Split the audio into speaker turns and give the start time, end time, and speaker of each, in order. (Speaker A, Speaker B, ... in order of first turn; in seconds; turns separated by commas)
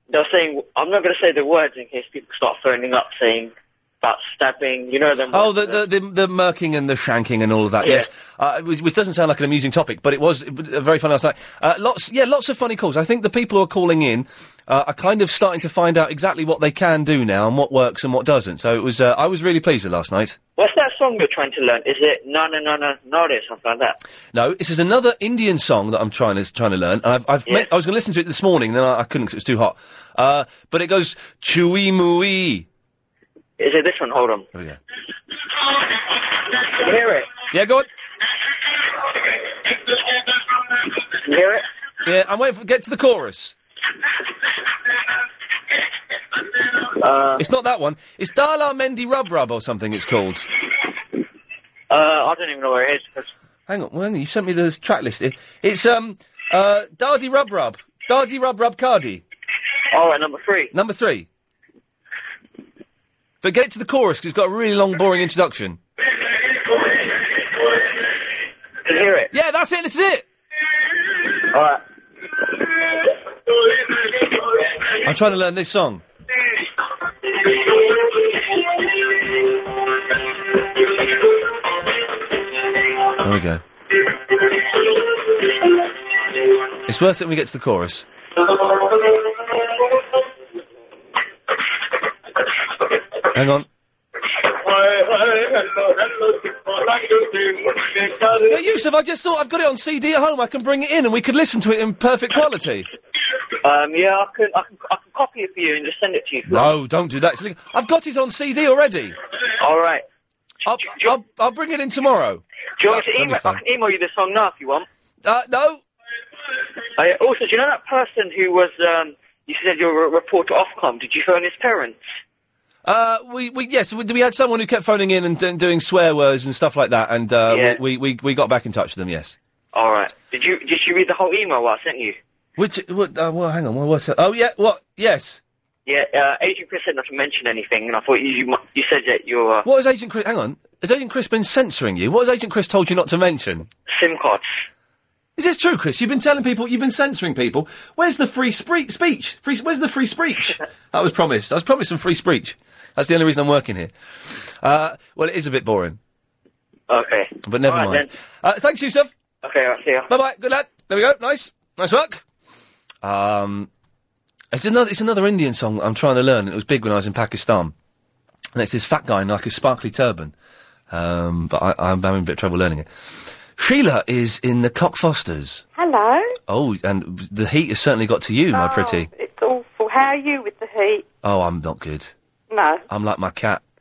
Speaker A: 0.1-5.8, Speaker B: 5.3-20.4, Speaker A: 7.8-8.1, Speaker A: 20.6-24.0, Speaker B: 24.3-32.6, Speaker A: 33.6-34.5, Speaker B: 34.5-34.8, Speaker A: 36.5-37.3, Speaker B: 37.5-37.9, Speaker A: 41.1-41.6, Speaker B: 42.0-43.5, Speaker A: 47.0-47.4, Speaker B: 47.4-50.5, Speaker A: 51.9-53.3, Speaker B: 53.7-59.2, Speaker A: 59.9-60.7, Speaker B: 60.7-61.3, Speaker B: 63.4-65.8, Speaker A: 68.8-69.3, Speaker B: 69.3-70.2, Speaker A: 71.4-71.8, Speaker B: 75.0-76.0, Speaker B: 83.2-83.6, Speaker B: 86.8-88.0, Speaker B: 93.3-93.7, Speaker B: 98.3-102.9, Speaker A: 103.6-106.7, Speaker B: 106.5-109.2, Speaker A: 109.6-110.0, Speaker B: 110.7-113.6, Speaker A: 112.8-114.8, Speaker B: 115.2-115.8, Speaker A: 117.0-122.0, Speaker B: 122.8-129.3, Speaker A: 127.5-127.8, Speaker A: 129.7-132.2, Speaker B: 132.6-135.4, Speaker A: 135.8-139.7, Speaker B: 139.6-143.7, Speaker A: 143.9-144.5, Speaker B: 145.4-153.9, Speaker B: 154.6-156.0, Speaker A: 156.9-158.1, Speaker B: 157.4-159.1, Speaker A: 159.4-160.1, Speaker B: 160.1-162.2, Speaker B: 163.0-163.7, Speaker B: 164.5-167.7, Speaker B: 168.5-170.3, Speaker B: 170.9-172.9, Speaker B: 173.6-175.6, Speaker C: 175.7-176.3, Speaker B: 176.5-179.1, Speaker C: 178.5-181.1, Speaker B: 181.2-182.1, Speaker C: 182.5-182.8, Speaker B: 182.9-183.6